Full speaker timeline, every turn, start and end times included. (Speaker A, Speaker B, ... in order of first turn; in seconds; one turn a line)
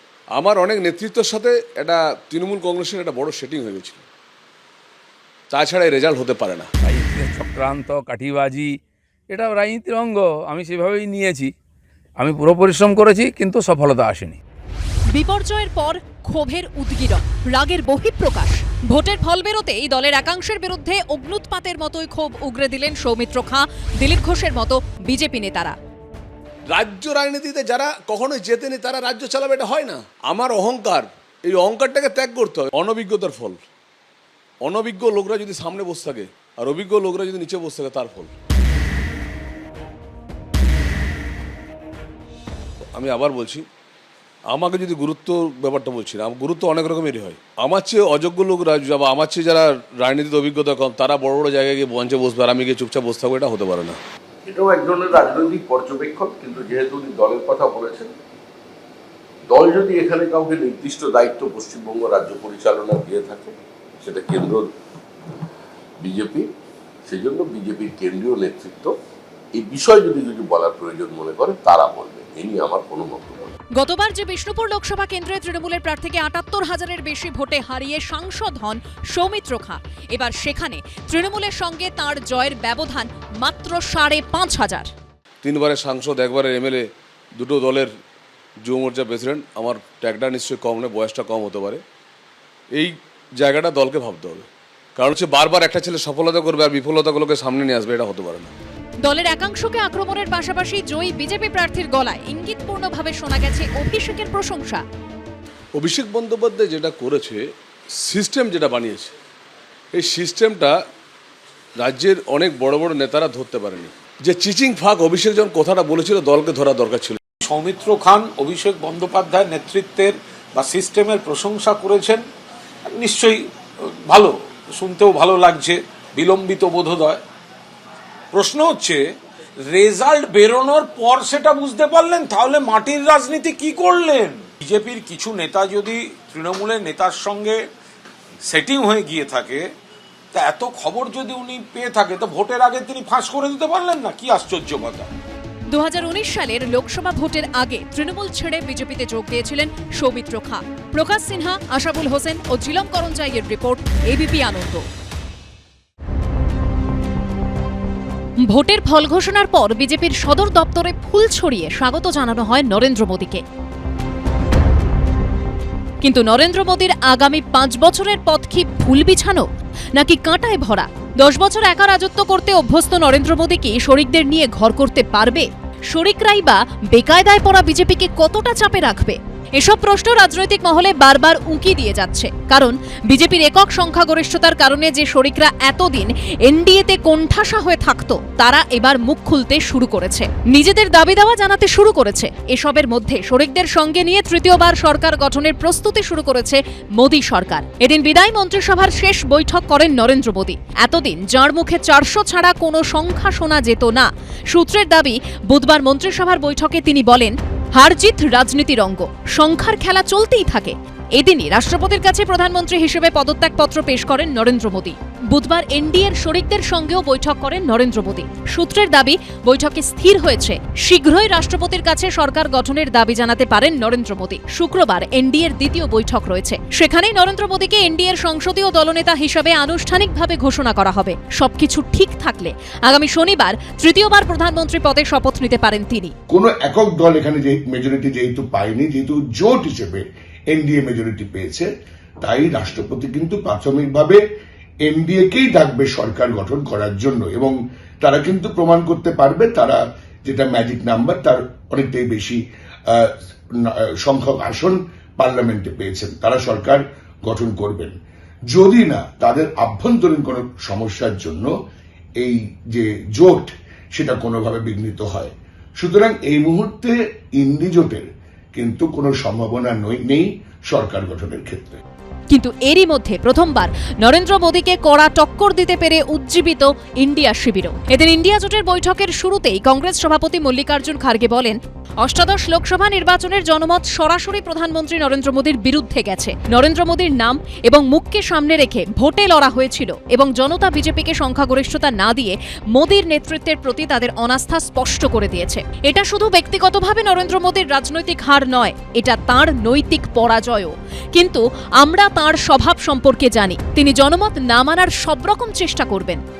Speaker A: 0.3-4.0
Speaker A: 5.5-6.7
Speaker B: 6.8-8.8
Speaker B: 9.3-11.5
Speaker B: 12.2-14.4
Speaker C: 15.1-25.8
Speaker A: 26.7-33.6
Speaker A: 34.6-38.3
Speaker A: 43.0-43.7
Speaker A: 44.5-54.0
Speaker D: 54.5-58.1
Speaker D: 59.5-64.7
Speaker D: 66.0-66.5
Speaker D: 67.1-68.9
Speaker D: 69.5-73.5
Speaker C: 73.8-84.9
Speaker A: 85.4-87.9
Speaker A: 88.6-91.8
Speaker A: 92.7-98.5
Speaker C: 99.0-104.8
Speaker A: 105.8-109.1
Speaker A: 109.9-110.8
Speaker A: 111.8-117.2
Speaker E: 117.4-122.2
Speaker E: 122.9-123.4
Speaker E: 124.1-127.2
Speaker E: 128.3-129.1
Speaker E: 129.7-137.6
Speaker E: 138.5-139.7
Speaker E: 140.3-145.1
Speaker C: 145.7-154.8
Speaker C: 158.4-163.4
Speaker C: 166.0-169.4
Speaker C: 170.0-236.1
Speaker F: 236.3-241.7
Speaker F: 242.2-244.2
Speaker F: 244.8-258.0
Speaker F: 258.5-261.5
Speaker F: 262.2-271.8
Speaker C: 272.3-306.2